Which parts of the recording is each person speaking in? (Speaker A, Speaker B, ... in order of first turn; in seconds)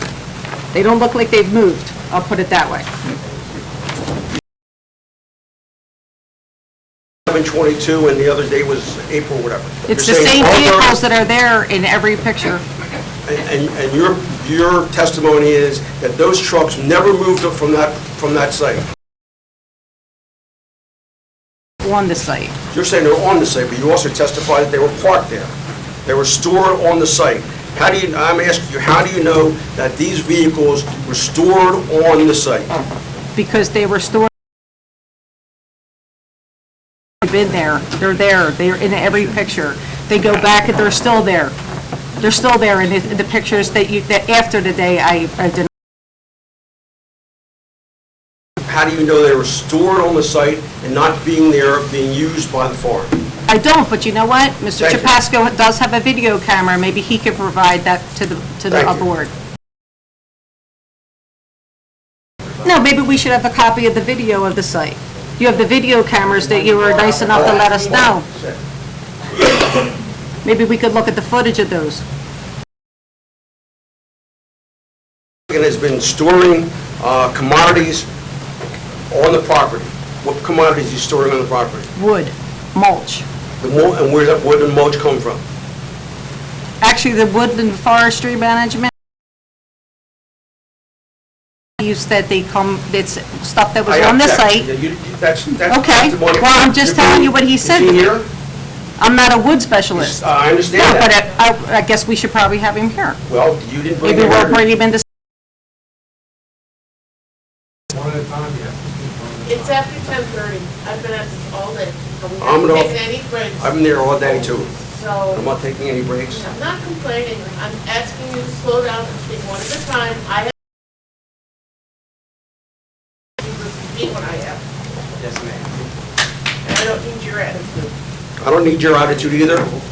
Speaker A: 0.7-2.9, 9.9-12.6, 21.8-22.5, 33.4-34.3, 37.2-41.5, 42.2-45.7, 53.5-59.3, 62.6-68.3, 70.4-72.0, 82.0-83.2, 86.8-88.9, 91.8-94.7, 95.7-98.1, 99.0-100.2, 100.7-103.2, 104.0-105.0
Speaker B: 7.3-11.0, 13.2-18.8, 22.7-25.5, 26.1-32.7, 48.6-53.1, 54.8-55.1, 58.7-59.0, 66.9-68.6, 75.5-78.1, 79.1-81.9, 83.6-85.4, 93.9-98.3, 99.9-101.1, 103.3-104.6, 112.4-113.0, 113.6-114.7, 115.3-116.4, 125.2-125.7, 128.4-129.7
Speaker C: 107.9-109.8
Speaker D: 109.5-113.8, 114.7-115.4, 116.3-120.5, 123.4-124.6, 126.6-127.9